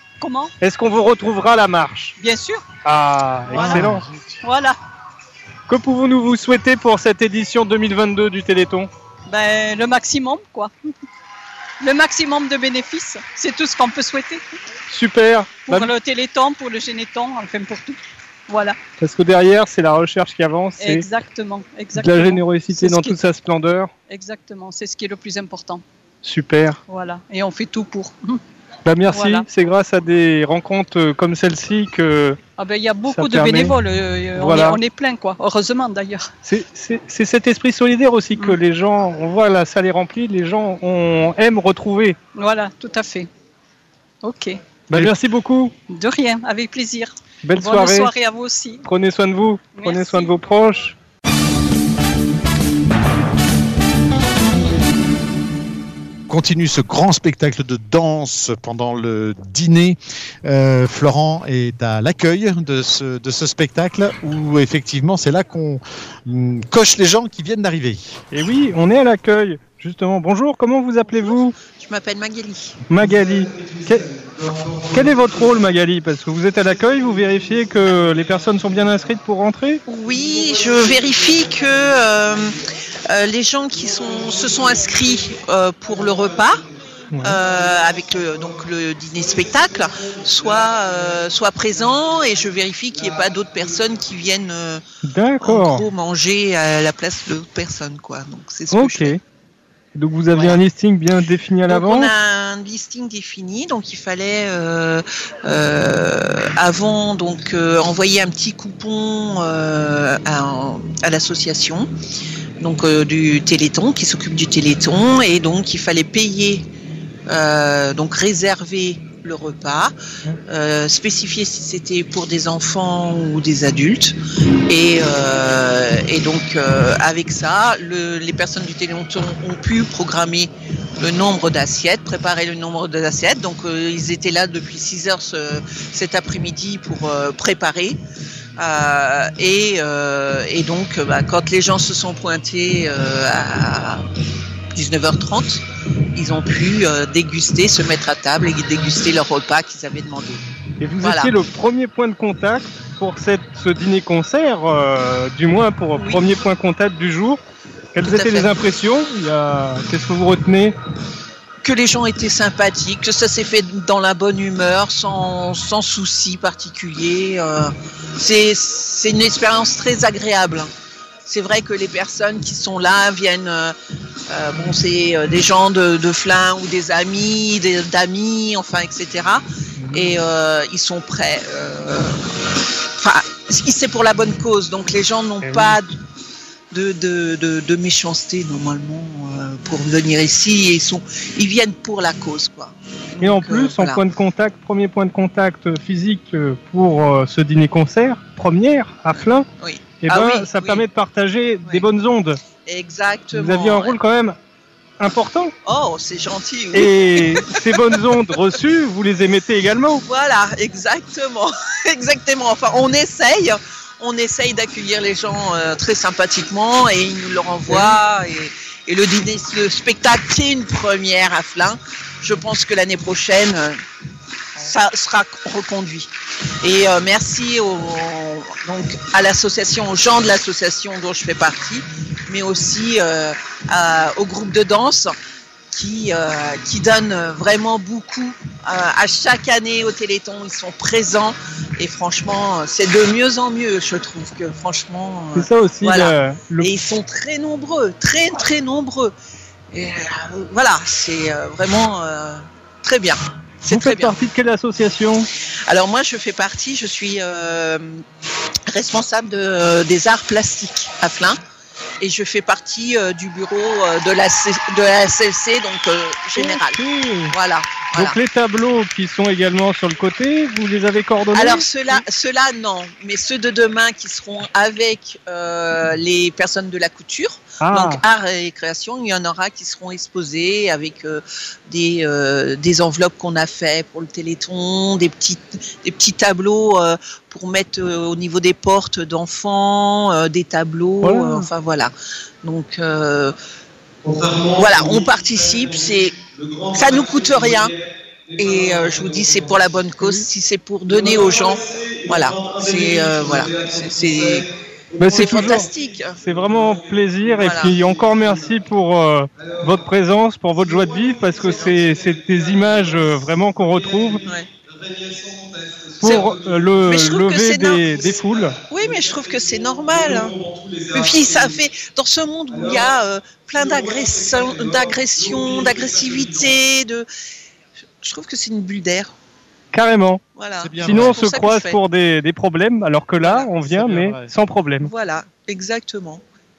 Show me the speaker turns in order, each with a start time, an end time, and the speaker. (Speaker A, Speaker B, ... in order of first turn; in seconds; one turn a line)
Speaker A: 0.2-0.5
Speaker B: 0.6-2.1
Speaker A: 2.2-2.6
Speaker B: 2.8-4.1
Speaker A: 3.5-3.9
Speaker C: 3.6-3.9
Speaker A: 4.4-4.8
Speaker B: 5.7-8.9
Speaker A: 9.3-10.7
Speaker A: 11.8-14.4
Speaker B: 14.9-15.9
Speaker A: 15.7-18.8
Speaker B: 19.0-21.1
Speaker A: 20.8-23.2
Speaker B: 21.9-23.9
Speaker A: 24.1-25.8
Speaker B: 26.2-26.8
Speaker A: 26.9-28.4
Speaker B: 28.8-32.4
Speaker A: 29.1-29.5
Speaker A: 32.6-36.2
Speaker B: 33.1-33.8
Speaker B: 34.3-34.8
Speaker B: 36.4-42.2
Speaker A: 42.3-43.3
Speaker A: 44.2-44.5
Speaker B: 44.9-45.7
Speaker A: 45.9-48.8
Speaker B: 47.4-48.1
Speaker B: 48.8-50.9
Speaker A: 49.8-50.3
Speaker C: 56.3-68.2
Speaker B: 68.3-71.5
Speaker D: 71.8-72.8
Speaker B: 72.9-79.8
Speaker D: 79.9-86.6
Speaker B: 87.1-87.4
Speaker D: 87.2-94.8
Speaker B: 95.0-95.8
Speaker D: 95.4-99.1
Speaker B: 98.7-99.2
Speaker B: 99.9-102.1
Speaker D: 100.3-100.6
Speaker D: 101.7-111.9
Speaker D: 112.6-116.7
Speaker D: 117.3-119.9
Speaker D: 120.5-138.0
Speaker D: 138.6-144.0
Speaker D: 144.7-150.4
Speaker B: 150.8-157.4
Speaker D: 151.0-151.3
Speaker D: 155.9-156.2
Speaker B: 157.9-160.7
Speaker D: 158.0-158.5
Speaker D: 161.6-170.7
Speaker D: 171.2-173.7
Speaker D: 174.3-185.9
Speaker B: 179.8-180.2
Speaker B: 185.4-185.8
Speaker D: 186.7-194.0
Speaker B: 193.2-199.4
Speaker D: 199.2-200.8
Speaker B: 200.0-202.4
Speaker D: 202.6-204.0
Speaker B: 203.3-204.4
Speaker B: 205.0-205.5
Speaker D: 205.6-207.7
Speaker B: 206.7-210.0
Speaker D: 210.0-223.8
Speaker B: 217.7-217.9
Speaker D: 224.6-226.1
Speaker D: 226.6-235.2
Speaker D: 235.7-249.1
Speaker B: 245.3-246.7
Speaker D: 249.7-254.2
Speaker B: 253.7-255.3
Speaker D: 255.7-258.0
Speaker D: 258.7-261.4
Speaker D: 262.0-268.2
Speaker B: 266.4-267.3
Speaker B: 267.9-272.0
Speaker D: 271.3-291.9
Speaker B: 277.6-278.0
Speaker B: 291.0-291.5
Speaker D: 292.4-293.3
Speaker D: 294.5-297.8
Speaker D: 298.4-306.2
Speaker B: 305.0-314.2
Speaker D: 307.4-307.8
Speaker D: 314.2-314.5
Speaker B: 316.0-318.6
Speaker D: 316.0-318.1
Speaker D: 318.7-327.1
Speaker D: 328.0-329.1
Speaker B: 329.7-330.2
Speaker D: 330.4-331.8
Speaker C: 330.6-331.2
Speaker B: 330.8-334.9
Speaker D: 333.2-333.5
Speaker C: 333.6-334.3
Speaker D: 334.8-336.2